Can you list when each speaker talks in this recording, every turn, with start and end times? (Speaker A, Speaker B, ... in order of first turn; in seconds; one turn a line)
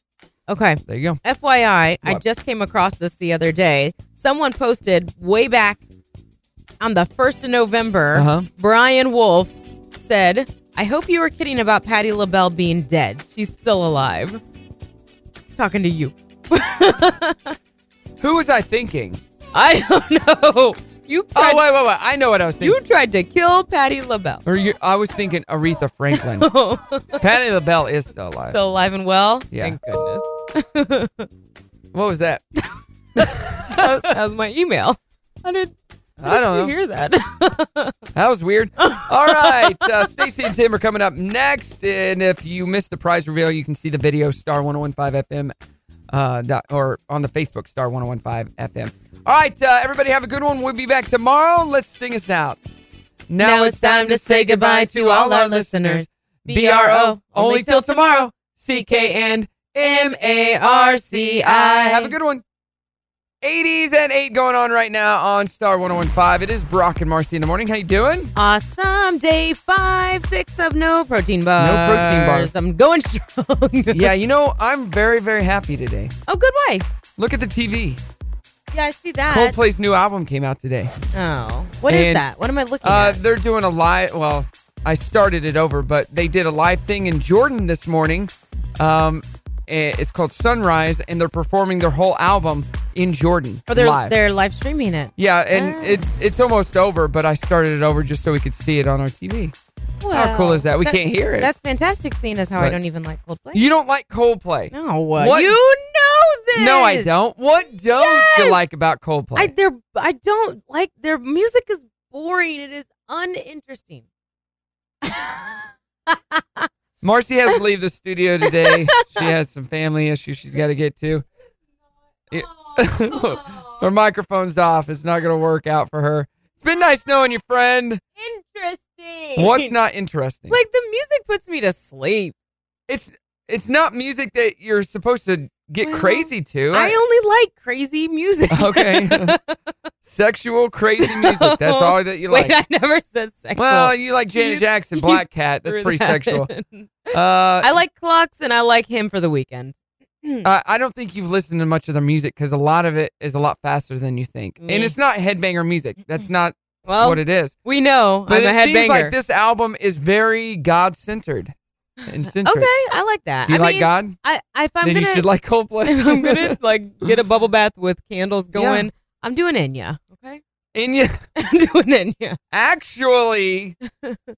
Speaker A: 0.5-5.8
Speaker B: 0.9-1.2
Speaker A: 6.8-9.5
Speaker B: 8.2-8.5
Speaker A: 10.0-14.4
Speaker A: 15.6-17.6
Speaker B: 18.2-19.2
Speaker A: 19.5-21.6
Speaker B: 21.4-22.8
Speaker A: 22.6-24.4
Speaker B: 24.5-26.5
Speaker A: 26.1-27.2
Speaker B: 27.2-28.6
Speaker A: 28.5-31.3
Speaker B: 31.9-32.4
Speaker A: 33.2-35.7
Speaker B: 33.2-34.0
Speaker B: 36.2-36.7
Speaker A: 36.3-38.0
Speaker B: 38.1-45.5
Speaker A: 38.8-40.2
Speaker B: 46.1-52.6
Speaker B: 53.3-62.4
Speaker A: 53.4-62.1
Speaker B: 63.4-68.3
Speaker A: 68.4-74.1
Speaker B: 71.6-72.5
Speaker B: 73.9-76.1
Speaker A: 76.3-76.9
Speaker B: 77.2-78.0
Speaker A: 78.7-79.6
Speaker B: 79.3-80.9
Speaker A: 81.1-83.2
Speaker B: 81.9-82.3
Speaker B: 82.8-94.1
Speaker A: 93.7-96.0
Speaker B: 95.2-99.5
Speaker A: 100.0-103.7
Speaker B: 100.1-101.5
Speaker B: 103.5-105.6
Speaker A: 104.7-107.1
Speaker B: 106.5-109.5
Speaker A: 108.0-108.6
Speaker A: 109.4-114.0
Speaker A: 115.0-116.7
Speaker B: 117.0-121.2
Speaker A: 118.5-119.3
Speaker B: 122.3-128.0
Speaker A: 122.3-123.6
Speaker A: 128.2-129.7
Speaker B: 129.4-130.6
Speaker A: 130.5-132.3
Speaker B: 132.9-136.9
Speaker A: 135.8-139.6
Speaker B: 138.5-139.3
Speaker B: 140.1-142.6
Speaker A: 141.0-150.5
Speaker B: 143.6-146.5
Speaker B: 147.1-147.8
Speaker B: 150.4-157.6
Speaker A: 154.6-154.9
Speaker A: 156.9-159.1
Speaker B: 158.3-161.5
Speaker B: 162.1-162.7
Speaker A: 162.4-165.3
Speaker B: 163.5-164.2
Speaker B: 164.8-166.6
Speaker A: 165.8-170.4
Speaker B: 168.6-168.9
Speaker B: 170.8-171.2
Speaker A: 171.4-172.4
Speaker B: 172.5-173.8